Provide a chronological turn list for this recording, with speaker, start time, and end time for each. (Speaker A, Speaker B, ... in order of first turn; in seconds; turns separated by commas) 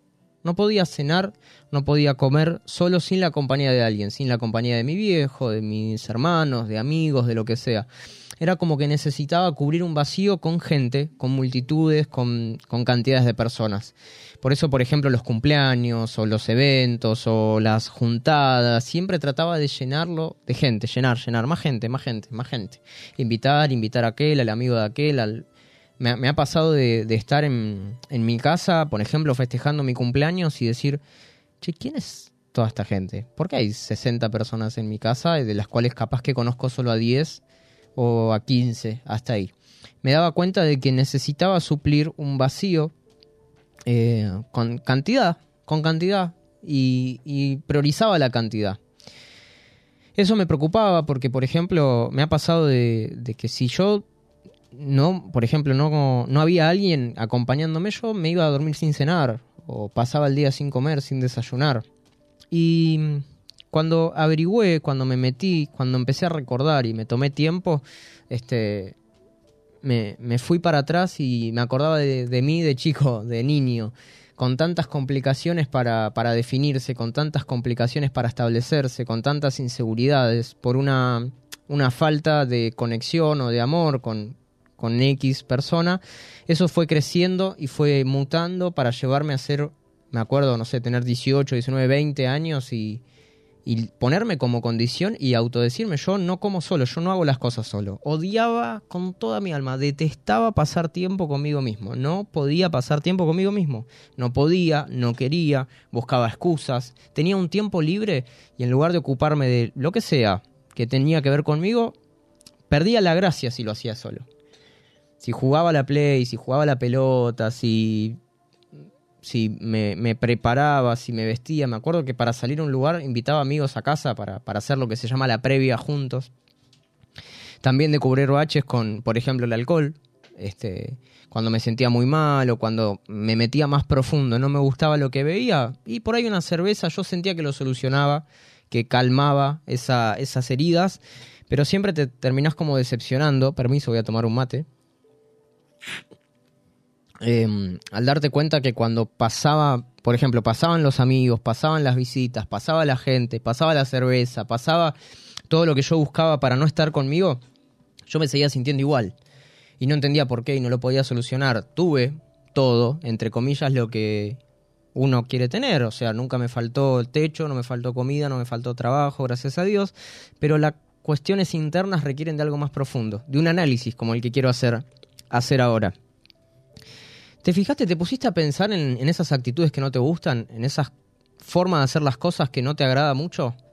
Speaker A: 0.4-7.9, Speaker A: 8.4-25.5, Speaker A: 26.0-31.0, Speaker A: 31.6-37.4, Speaker A: 38.0-39.5, Speaker A: 40.0-42.9, Speaker A: 43.9-48.8, Speaker A: 50.2-54.0, Speaker A: 54.7-61.9, Speaker A: 62.5-69.0, Speaker A: 69.8-93.0, Speaker A: 93.7-112.0, Speaker A: 112.7-114.3, Speaker A: 115.2-118.2, Speaker A: 119.2-126.3, Speaker A: 127.6-144.7, Speaker A: 147.2-154.9, Speaker A: 155.5-157.4, Speaker A: 158.1-159.2, Speaker A: 159.8-164.4, Speaker A: 164.9-175.9, Speaker A: 177.4-183.6